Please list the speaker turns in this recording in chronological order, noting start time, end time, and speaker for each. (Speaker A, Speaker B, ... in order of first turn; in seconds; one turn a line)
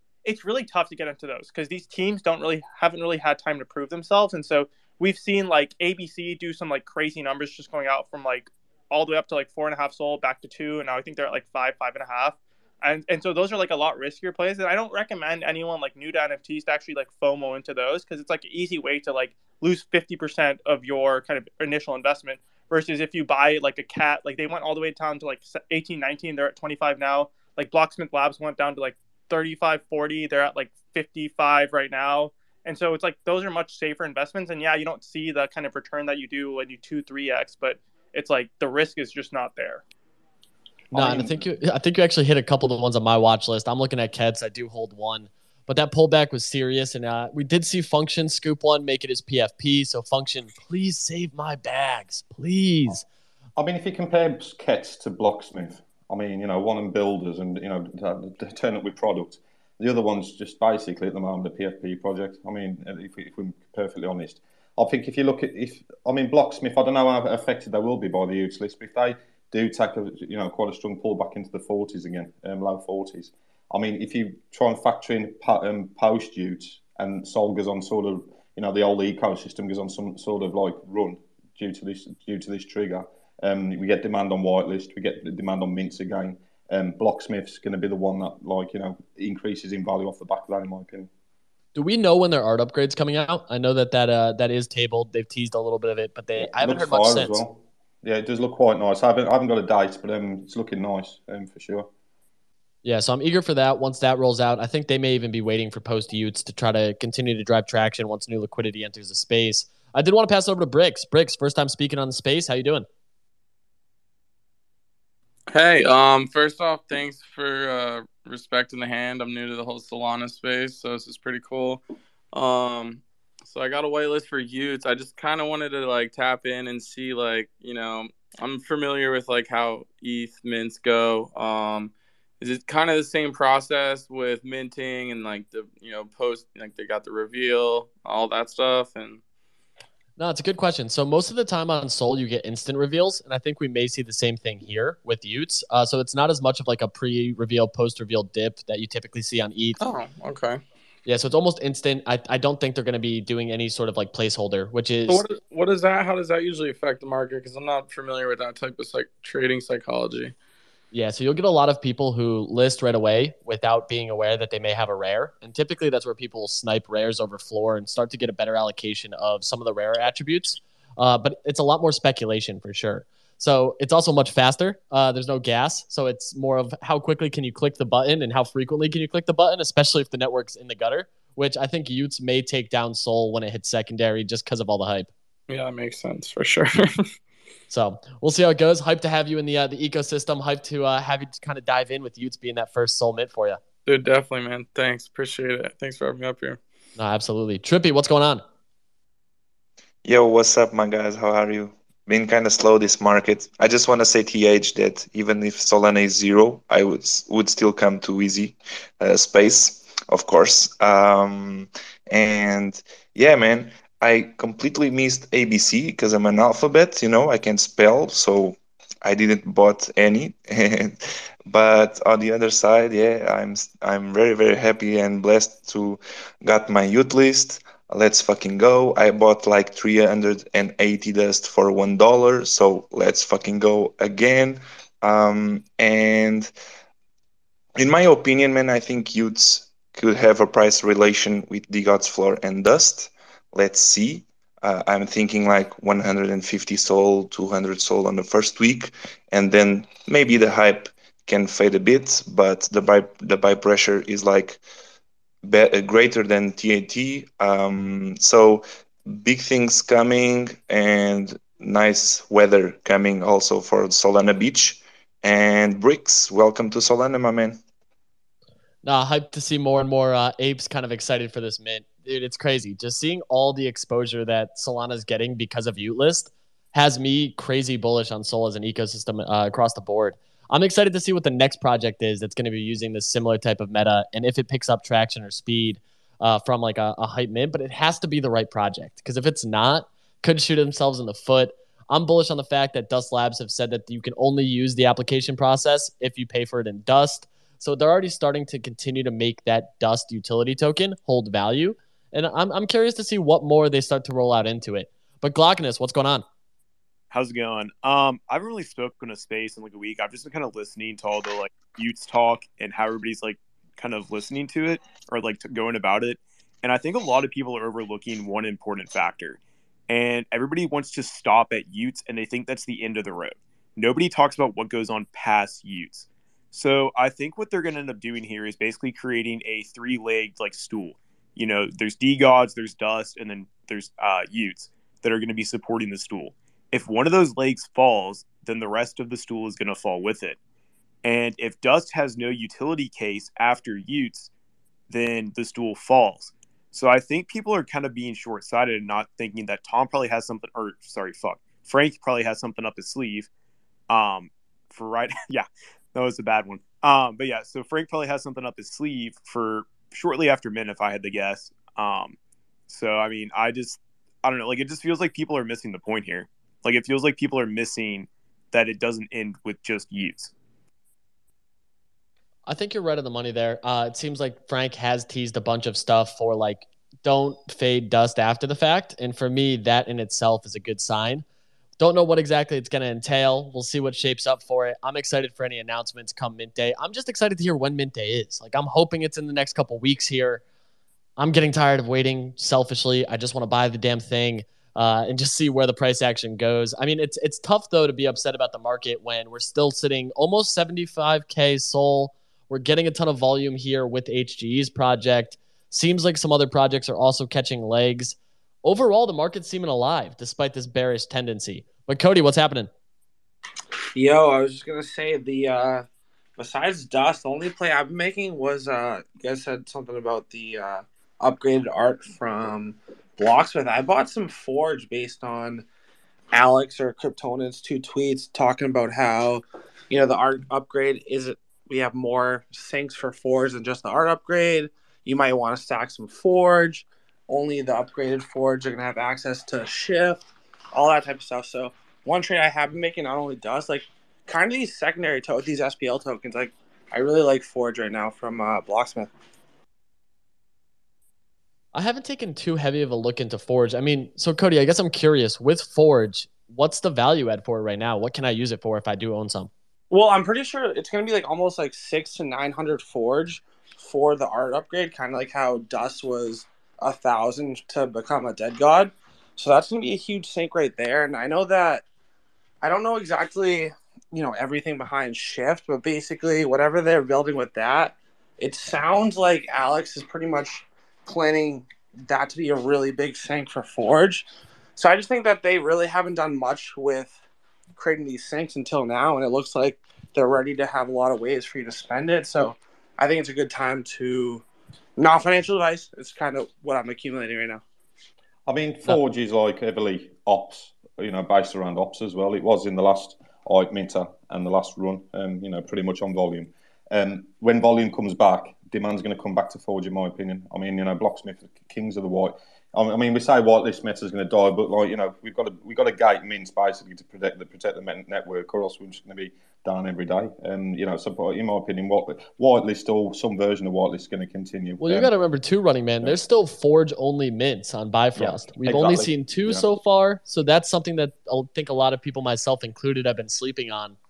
Speaker A: 0.2-39.8
Speaker B: 40.9-41.5
Speaker C: 40.9-53.0
Speaker B: 53.6-91.1
Speaker C: 91.7-97.4
Speaker B: 96.4-101.9
Speaker C: 102.8-112.8
Speaker D: 115.5-139.2
Speaker C: 140.2-149.8
Speaker D: 149.8-150.6
Speaker C: 151.1-155.2
Speaker D: 155.1-160.3
Speaker C: 160.9-185.1
Speaker D: 185.5-187.1
Speaker C: 187.7-193.6
Speaker D: 193.8-196.6
Speaker C: 197.0-198.4
Speaker E: 200.0-236.5
Speaker E: 237.8-254.6
Speaker E: 255.4-267.6
Speaker C: 268.8-306.2
Speaker F: 307.1-340.4
Speaker F: 341.0-344.3
Speaker F: 344.9-353.3
Speaker F: 353.9-362.2
Speaker F: 362.7-370.3
Speaker C: 372.5-381.2
Speaker C: 381.8-390.4
Speaker C: 391.2-412.7
Speaker G: 413.9-415.9
Speaker G: 416.4-425.6
Speaker G: 426.3-449.1
Speaker C: 451.7-459.5
Speaker G: 459.9-471.8
Speaker G: 472.6-487.2
Speaker G: 487.7-494.4
Speaker G: 495.0-497.6
Speaker B: 498.5-525.1
Speaker C: 524.8-534.0
Speaker B: 528.1-529.6